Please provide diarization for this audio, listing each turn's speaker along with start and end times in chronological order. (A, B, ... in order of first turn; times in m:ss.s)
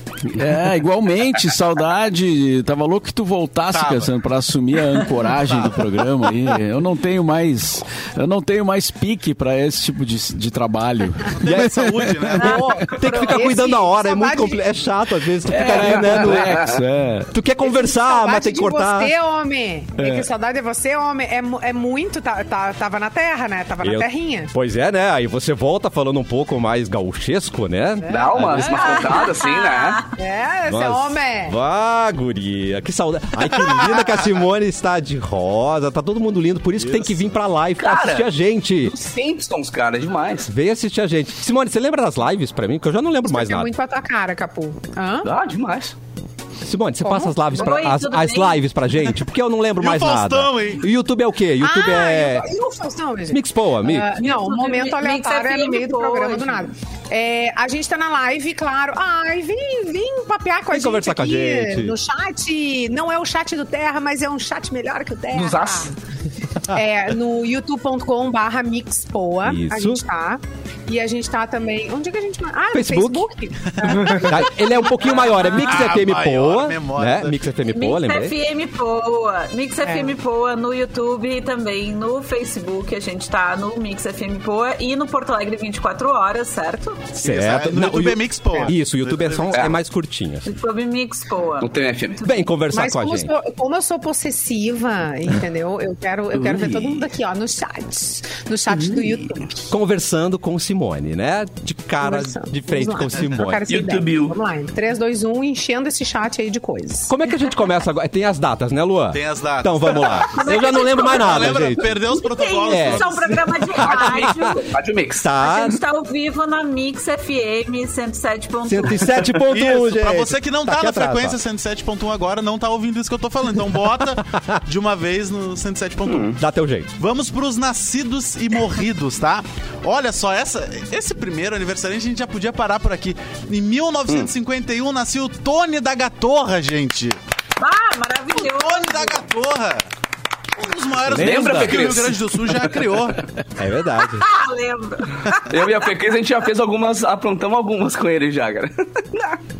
0:00.2-0:12.3 A
0:03.7-0:04.1 B
0:05.3-0:05.8 B
0:11.4-0:12.7 B
0:11.4-0:16.8 C
0:12.4-0:13.7 D
0:12.4-0:14.6 E
0:15.5-0:17.3 A
0:17.3-0:19.1 C
0:17.6-0:24.5 E
0:20.0-0:20.3 A
0:23.8-0:28.7 C
0:28.0-0:29.2 E
0:28.1-0:30.0 F
0:28.7-0:30.1 D
0:30.2-0:31.5 E
0:30.7-0:39.0 C
0:36.8-0:37.2 B
0:37.8-0:38.3 F
0:38.8-0:40.5 F
0:40.4-0:43.7 C
0:43.2-0:45.3 E
0:45.2-0:45.9 F
0:46.6-0:52.5 C
0:47.0-0:47.8 E
0:47.5-0:48.6 D
0:49.8-0:50.8 B
0:51.6-1:05.9 E
0:53.3-0:54.1 C
0:54.2-0:56.7 D
1:00.7-1:02.0 C
1:05.3-1:05.9 F
1:06.7-1:14.8 E
1:09.4-1:10.0 C
1:12.7-1:13.3 C
1:13.8-1:18.3 C
1:13.8-1:14.3 B
1:15.4-1:17.6 B
1:17.7-1:27.0 D
1:19.8-1:20.1 E
1:27.2-1:29.7 B
1:27.2-1:30.4 C
1:30.4-1:32.5 D
1:31.6-1:32.2 F
1:32.2-1:33.3 C
1:32.7-1:39.7 E
1:36.3-1:37.1 F
1:38.7-1:39.2 F
1:39.7-1:43.6 C
1:42.0-1:47.1 E
1:43.7-1:44.3 F
1:47.1-1:52.0 C
1:49.1-1:53.6 B
1:50.3-1:54.7 D
1:52.7-1:53.0 C
1:53.8-1:55.3 F
1:53.8-1:54.5 C
1:55.2-1:55.8 C
1:55.4-1:59.3 D
1:58.6-2:01.4 C
1:59.4-2:06.4 B
2:06.0-2:06.4 F
2:06.4-2:06.9 C
2:07.0-2:17.2 B
2:17.6-2:19.2 D
2:18.4-2:19.8 B
2:20.6-2:23.2 B
2:21.1-2:21.8 C
2:21.1-2:22.8 F
2:23.6-2:24.2 C
2:24.2-2:25.9 D
2:25.4-2:29.4 F